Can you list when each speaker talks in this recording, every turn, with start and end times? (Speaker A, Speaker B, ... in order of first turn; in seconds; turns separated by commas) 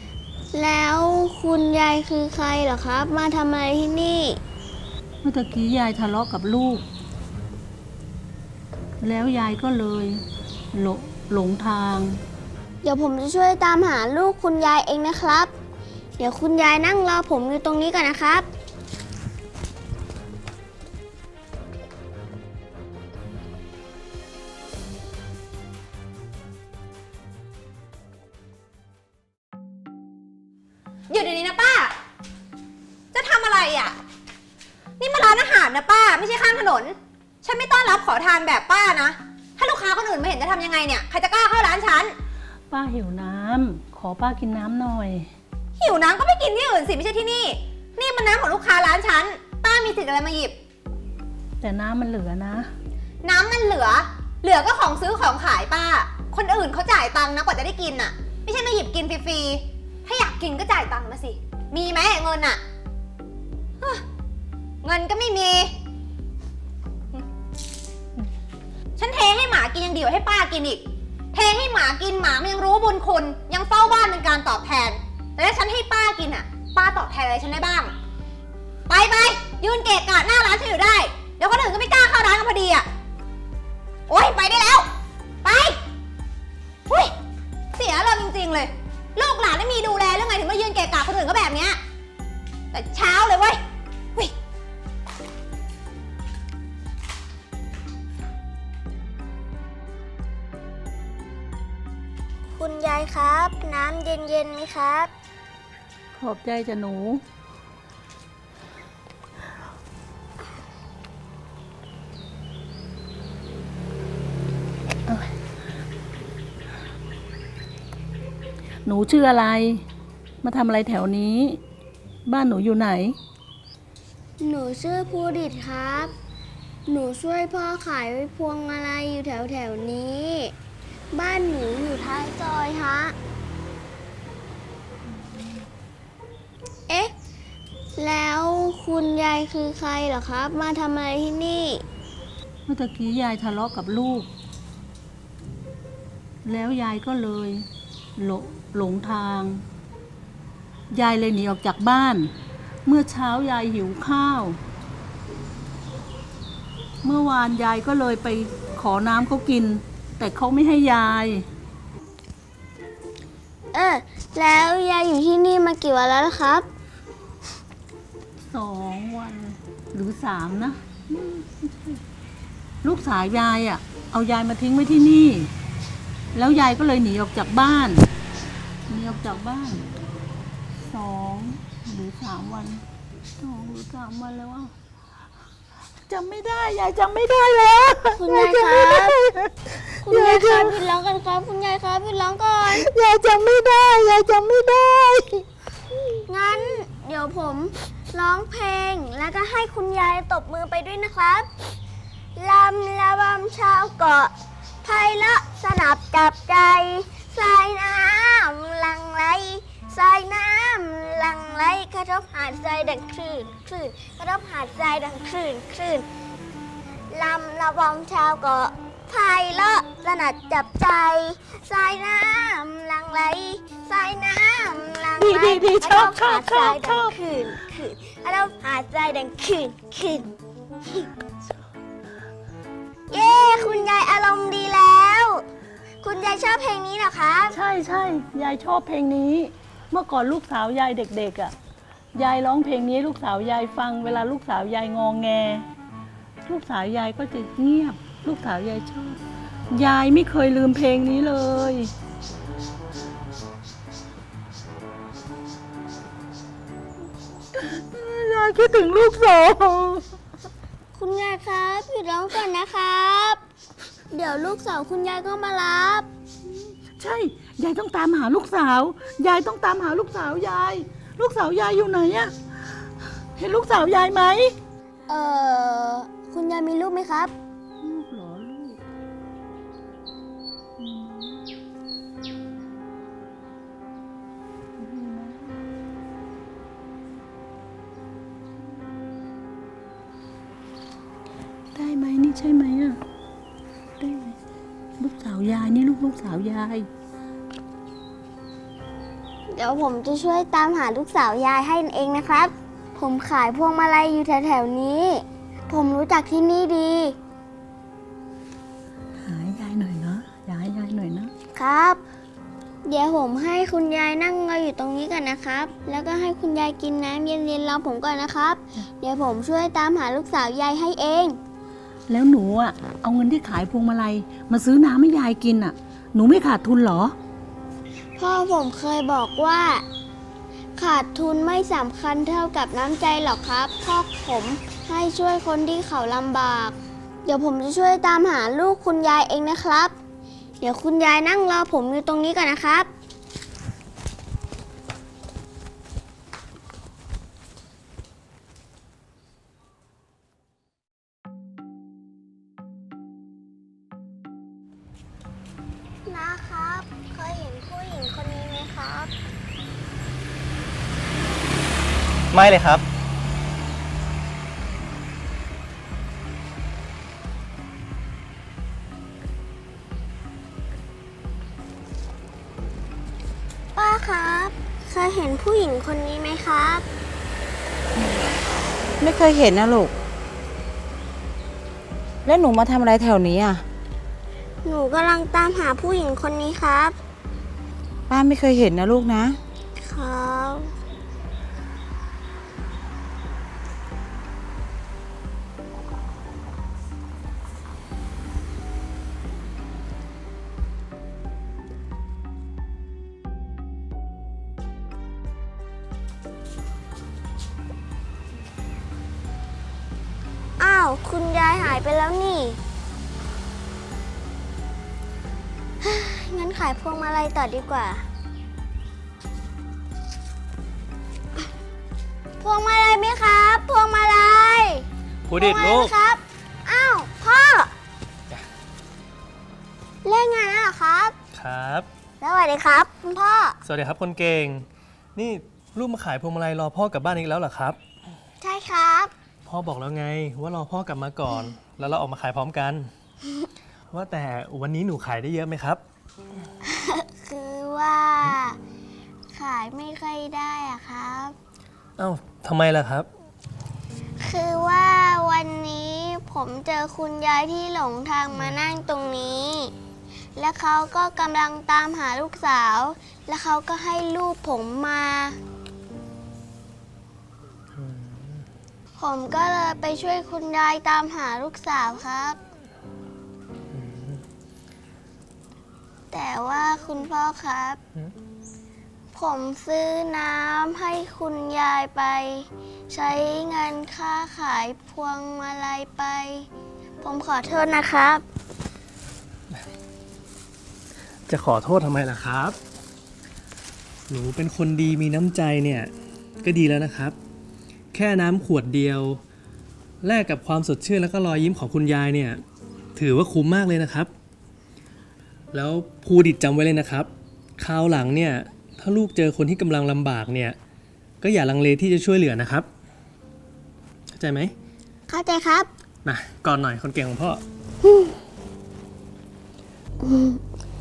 Speaker A: 0.5-4.4, Speaker B: 5.2-6.8, Speaker B: 9.0-12.2, Speaker A: 12.8-15.5, Speaker A: 16.2-18.4, Speaker C: 31.1-31.9, Speaker C: 33.1-34.0, Speaker C: 35.0-42.1, Speaker B: 42.7-45.3, Speaker C: 45.8-50.5, Speaker B: 51.6-52.7, Speaker C: 53.2-62.6, Speaker C: 64.8-65.7, Speaker C: 69.0-77.9, Speaker C: 78.9-82.9, Speaker C: 84.1-84.9, Speaker C: 85.4-85.8, Speaker C: 86.9-87.1, Speaker C: 87.7-91.8, Speaker C: 92.7-93.6, Speaker A: 102.5-105.1, Speaker B: 106.1-107.2, Speaker B: 118.8-119.8, Speaker B: 120.4-121.6, Speaker B: 122.2-123.2, Speaker A: 124.4-126.1, Speaker A: 126.8-130.5, Speaker A: 131.1-133.2, Speaker A: 137.9-141.8, Speaker B: 142.7-144.3, Speaker B: 146.4-147.7, Speaker B: 148.2-149.6, Speaker B: 150.9-152.3, Speaker B: 152.8-154.6, Speaker B: 157.0-161.4, Speaker A: 163.7-166.7, Speaker B: 168.4-172.0, Speaker B: 172.8-175.5, Speaker B: 176.3-178.1, Speaker B: 178.9-179.8, Speaker B: 180.8-182.8, Speaker B: 183.4-184.7, Speaker B: 186.1-189.5, Speaker A: 188.2-189.2, Speaker A: 190.0-192.9, Speaker B: 190.1-190.7, Speaker B: 192.8-195.4, Speaker A: 196.2-201.5, Speaker A: 202.3-216.0, Speaker A: 217.1-230.3, Speaker B: 225.2-227.1, Speaker A: 233.1-235.4, Speaker A: 236.0-237.6, Speaker B: 237.5-241.5, Speaker B: 242.1-245.7, Speaker B: 246.4-249.2, Speaker B: 249.7-251.9, Speaker B: 257.5-260.1, Speaker A: 260.9-263.4, Speaker A: 264.1-266.1, Speaker B: 266.8-272.3, Speaker B: 273.4-274.5, Speaker A: 275.1-277.3, Speaker B: 277.8-278.8, Speaker B: 280.8-281.4, Speaker B: 284.8-285.6, Speaker B: 291.7-293.0, Speaker B: 294.0-294.4, Speaker B: 295.0-296.9, Speaker A: 299.5-307.1, Speaker B: 309.2-311.3, Speaker A: 311.5-312.0, Speaker A: 312.8-321.4, Speaker B: 322.1-327.1, Speaker A: 328.2-329.8, Speaker A: 330.8-339.9, Speaker A: 340.6-342.9, Speaker A: 356.0-359.1, Speaker D: 362.3-362.8, Speaker A: 373.7-376.9, Speaker E: 379.0-379.9, Speaker E: 382.2-383.6, Speaker A: 384.6-387.0, Speaker E: 388.1-389.4, Speaker A: 389.8-390.7, Speaker A: 410.6-412.6, Speaker A: 415.8-418.0, Speaker A: 422.4-424.9, Speaker D: 425.3-425.9, Speaker A: 425.4-427.7, Speaker A: 430.0-431.1, Speaker D: 431.3-431.9, Speaker A: 432.2-433.6, Speaker D: 433.6-437.8, Speaker A: 438.4-439.1, Speaker D: 439.4-442.9, Speaker D: 443.9-445.8, Speaker A: 446.6-448.6, Speaker A: 449.3-451.4, Speaker D: 452.0-453.1, Speaker A: 454.2-459.7, Speaker A: 460.4-465.4, Speaker D: 467.8-468.4, Speaker A: 469.0-472.4, Speaker D: 473.7-474.2, Speaker A: 476.1-477.8, Speaker A: 479.1-486.5, Speaker A: 487.0-488.2, Speaker D: 491.3-492.6, Speaker D: 494.1-497.1, Speaker D: 497.9-499.2, Speaker D: 500.0-502.4, Speaker D: 502.9-504.1, Speaker D: 505.5-510.6, Speaker D: 511.2-512.7, Speaker D: 514.1-514.5, Speaker A: 515.1-515.7, Speaker D: 516.0-517.4, Speaker A: 520.0-520.4